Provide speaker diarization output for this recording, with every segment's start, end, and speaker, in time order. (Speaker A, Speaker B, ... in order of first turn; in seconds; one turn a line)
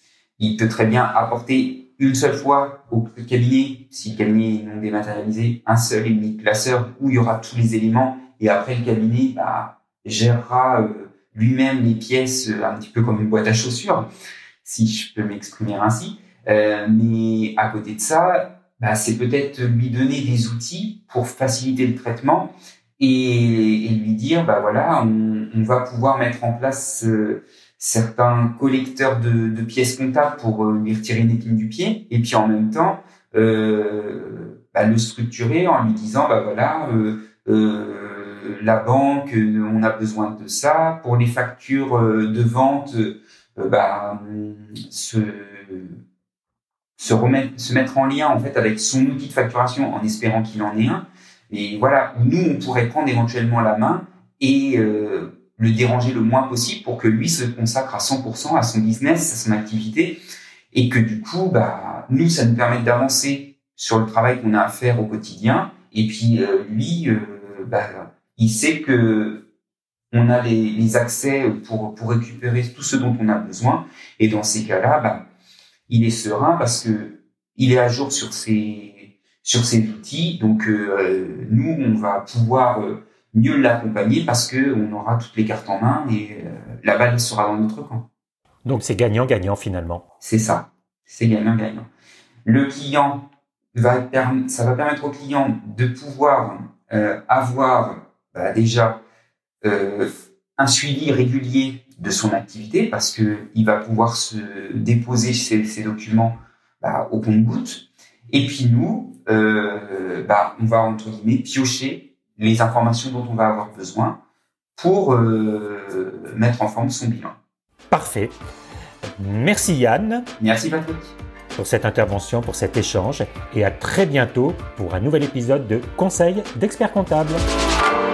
Speaker A: 0.4-14.1
Speaker A: 14.6-46.0
Speaker A: 47.0-60.2
Speaker A: 60.7-69.5
Speaker A: 70.1-75.2
Speaker A: 75.9-88.1
Speaker B: 88.7-90.0
Speaker A: 90.2-91.9
Speaker A: 92.5-99.0
Speaker A: 99.6-114.2
Speaker A: 114.8-117.4
Speaker B: 117.9-118.3
Speaker B: 119.2-120.2
Speaker A: 120.4-121.2
Speaker B: 121.5-127.4